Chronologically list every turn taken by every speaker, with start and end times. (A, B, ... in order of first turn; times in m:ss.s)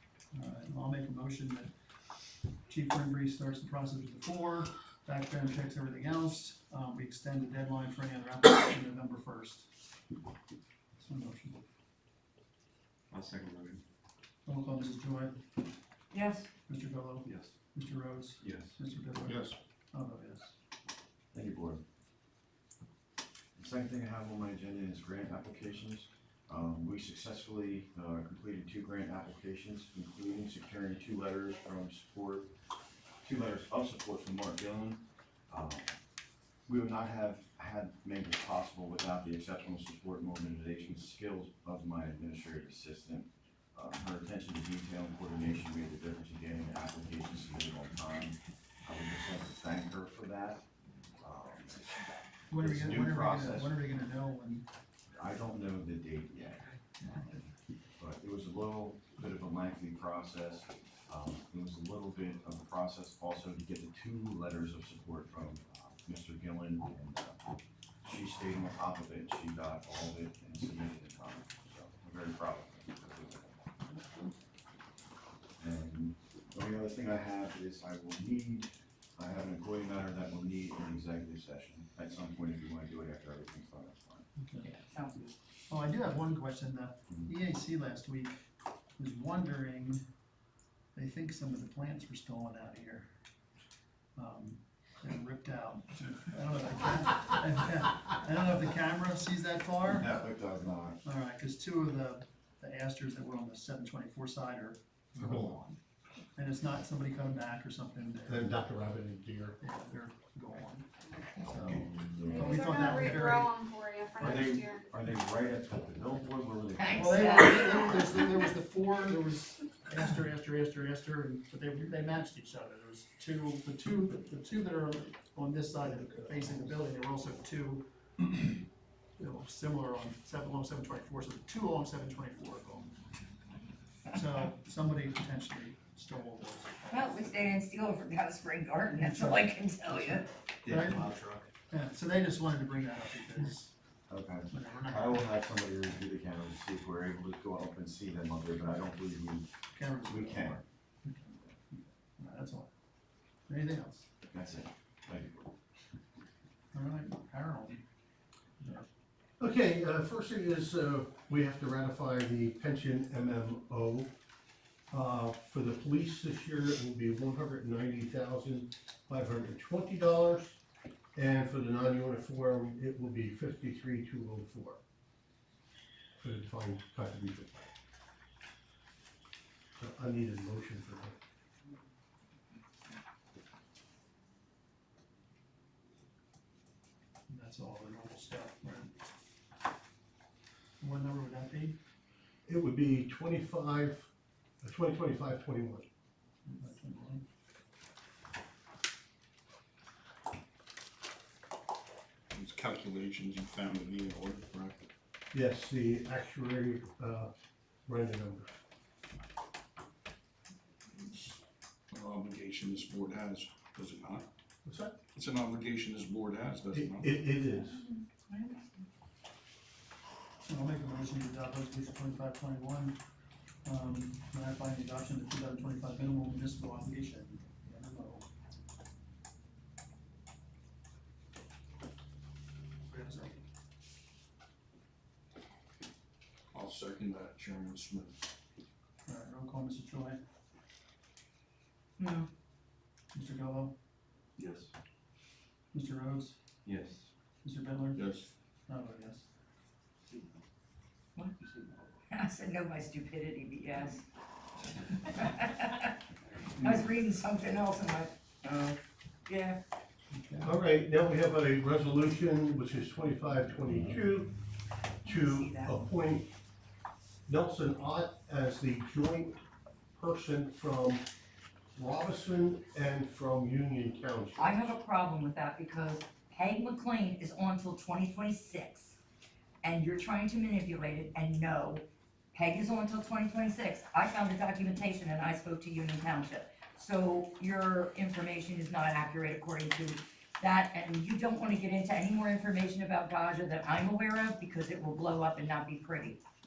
0:00.3-0:01.7 A
0:02.7-0:09.7 A
0:11.0-0:11.6 A
0:13.1-0:13.8 B
0:14.4-0:15.4 A
0:16.1-0:16.5 C
0:16.7-0:20.5 A
0:17.2-0:17.5 B
0:18.4-0:18.8 B
0:19.2-0:19.6 D
0:21.3-0:21.8 E
0:23.6-0:32.5 E
0:33.2-0:36.0 E
0:36.7-0:50.6 E
0:51.2-0:51.9 E
0:52.5-0:54.6 A
0:52.5-0:53.7 E
0:55.1-0:57.4 E
0:58.0-1:07.4 E
1:08.0-1:14.2 E
1:15.6-1:24.3 E
1:24.4-1:24.7 A
1:24.6-1:25.3 C
1:25.7-1:30.0 A
1:30.9-1:33.1 A
1:34.2-1:40.1 A
1:39.9-1:41.0 E
1:41.0-1:45.8 A
1:45.2-1:45.5 F
1:46.4-1:48.5 A
1:48.3-1:49.6 F
1:49.6-1:53.6 A
1:51.6-1:52.8 E
1:52.2-1:54.9 G
1:54.2-1:57.7 E
1:56.8-1:58.3 C
1:56.9-2:07.8 A
2:09.2-2:12.9 A
2:14.1-2:17.6 A
2:16.9-2:20.3 C
2:19.0-2:21.1 A
2:20.6-2:21.5 B
2:21.7-2:23.7 A
2:24.1-2:29.5 E
2:24.5-2:25.3 A
2:29.7-2:32.7 A
2:30.0-2:30.6 E
2:33.5-2:34.1 A
2:34.2-2:35.5 E
2:36.7-2:37.8 A
2:38.6-2:38.9 A
2:39.4-2:44.1 F
2:44.9-2:50.6 F
2:51.1-2:54.8 F
2:56.2-2:57.7 F
2:59.8-3:01.1 F
3:07.3-3:08.9 A
3:10.8-3:11.8 A
3:12.4-3:14.1 F
3:14.6-3:15.8 F
3:16.4-3:17.2 A
3:22.3-3:24.8 D
3:25.3-3:27.3 F
3:27.8-3:28.5 F
3:30.9-3:34.3 D
3:34.6-3:34.9 F
3:35.1-3:37.1 D
3:36.7-3:37.8 F
3:37.5-3:38.8 C
3:40.5-3:43.0 A
3:43.6-3:48.2 A
3:52.9-3:53.4 A
3:56.5-3:58.2 D
3:59.0-4:00.2 A
4:02.0-4:02.3 C
4:03.1-4:03.7 A
4:04.4-4:04.7 B
4:05.7-4:06.4 A
4:06.6-4:07.1 B
4:07.4-4:08.0 A
4:07.9-4:08.3 D
4:08.7-4:09.3 A
4:10.1-4:10.4 B
4:11.4-4:11.9 B
4:12.1-4:14.0 C
4:14.8-4:16.0 C
4:16.6-4:19.6 C
4:20.1-4:20.6 A
4:20.4-4:24.4 F
4:25.0-4:26.3 F
4:25.0-4:25.8 C
4:27.3-4:29.4 F
4:29.9-4:31.0 F
4:31.7-4:34.8 F
4:34.4-4:39.0 C
4:39.6-4:56.2 C